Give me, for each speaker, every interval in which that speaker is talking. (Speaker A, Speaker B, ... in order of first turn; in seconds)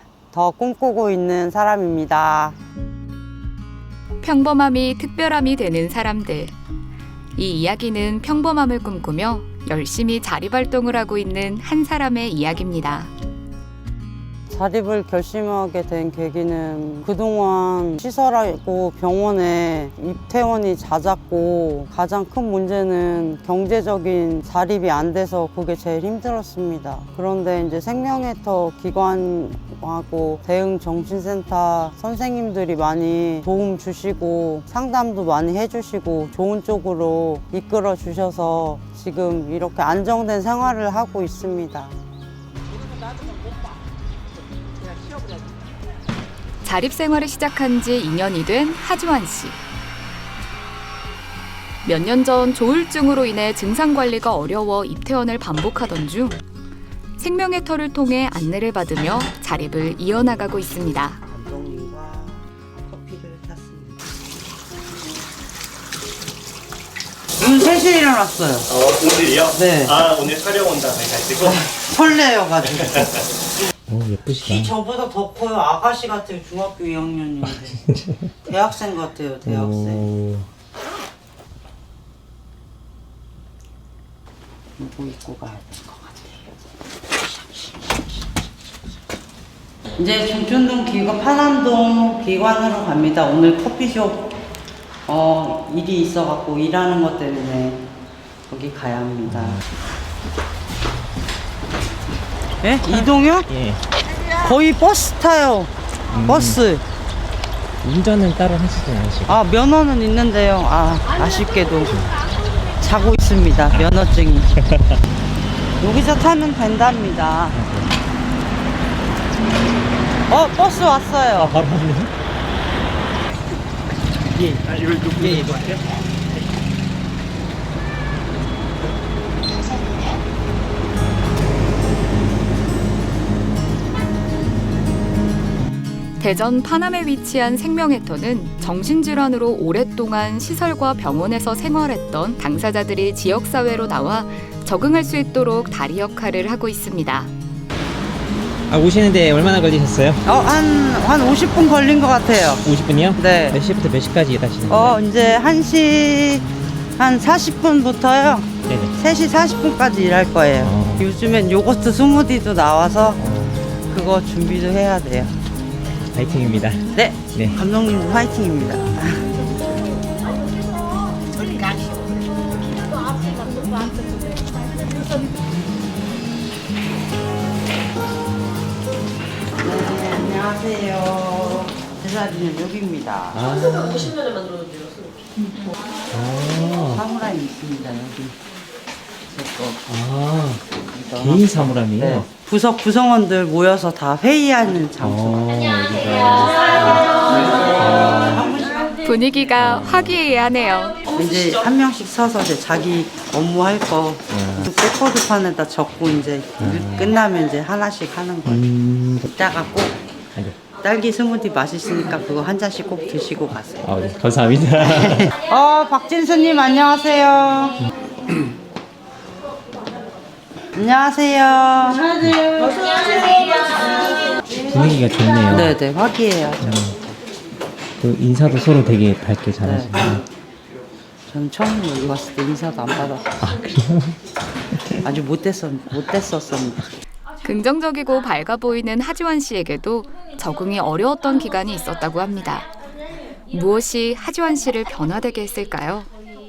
Speaker A: 0.3-2.5, 14.5-41.9, 61.2-64.2, 67.4-68.7, 69.5-70.0, 71.4-73.3, 74.4-77.8, 78.4-80.0, 84.8-86.5, 87.1-88.5, 90.0-94.3, 95.1-97.9, 98.5-99.6, 102.6-103.5, 104.3-105.7, 106.2-106.8, 109.3-112.0, 112.8-114.5, 115.8-117.6, 120.3-121.5, 150.2-152.6, 153.2-153.6, 154.7-156.4, 157.0-163.2, 163.9-165.3, 166.9-169.3, 179.6-183.4, 186.9-188.4, 189.4-189.7, 190.9-195.4, 197.6-199.0, 201.1-208.6, 209.2-210.0, 210.8-214.1, 214.8-217.8, 220.7-223.9, 224.5-224.8, 225.5-227.0, 229.6-230.2, 231.3-233.3, 235.0-236.9
Speaker B: 4.2-6.5, 7.3-13.1, 46.6-49.6, 51.8-56.4, 57.2-61.2, 136.2-147.3, 199.0-201.0, 237.4-242.7, 243.5-246.1
Speaker C: 68.7-71.5
Speaker D: 73.9-74.7, 79.4-80.5, 99.3-99.6, 103.5-103.8, 106.1-106.6, 107.8-109.3, 114.6-114.9, 117.5-117.9, 121.4-122.1, 124.3-125.8, 148.7-150.2, 152.6-155.0, 158.7-158.9, 160.6-161.1, 163.2-163.7, 166.1-167.6, 183.3-184.3, 186.1-187.0, 189.9-190.6, 191.1-192.3, 195.0-198.4, 199.6-200.1, 204.3-204.7, 206.6-207.1, 208.4-209.3, 213.8-215.3, 224.7-225.7, 226.6-226.9, 228.0-230.2, 233.4-234.1